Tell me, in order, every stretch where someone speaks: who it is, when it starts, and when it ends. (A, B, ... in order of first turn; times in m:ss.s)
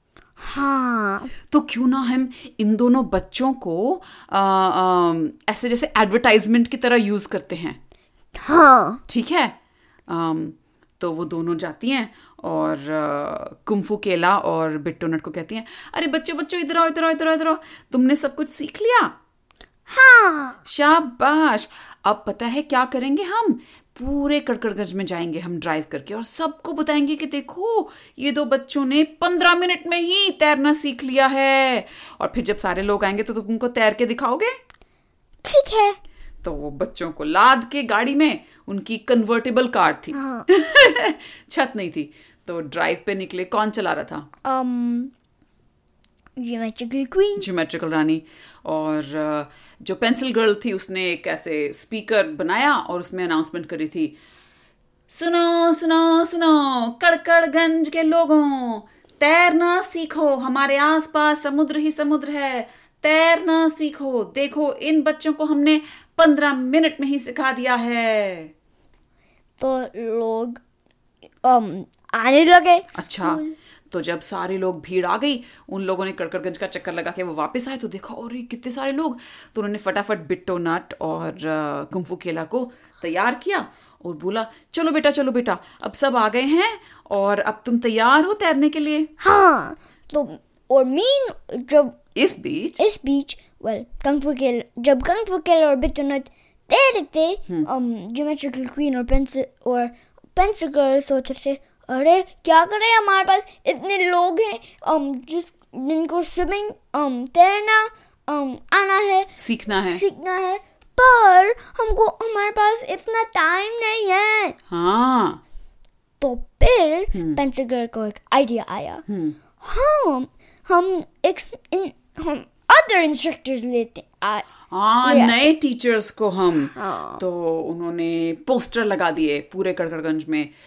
0:00.4-0:01.3 A
0:01.5-0:07.8 B
0:08.4-0:09.0 A
0:09.1-0:09.5 B
0:10.1-0:19.1 B
0:19.9-0:20.6 A
0:20.6-0:34.6 B
0:35.4-0:36.0 A
0:36.4-0:44.3 B
0:40.1-0:40.5 A
0:44.4-0:45.1 A
0:46.4-0:47.5 A
0:47.4-0:54.2 B
0:55.1-1:08.5 B
1:09.6-1:10.6 A
1:11.4-1:13.6 A
1:12.9-1:29.1 B
1:29.2-1:32.0 A
1:32.1-1:32.8 B
1:32.8-1:49.3 A
1:49.4-1:50.0 B
1:49.9-1:54.6 A
1:54.7-1:55.4 B
1:56.2-1:59.0 A
1:57.1-1:57.4 B
1:59.1-1:59.4 B
1:59.6-2:04.5 A
2:04.7-2:10.5 B
2:05.0-2:05.5 A
2:06.7-2:07.2 A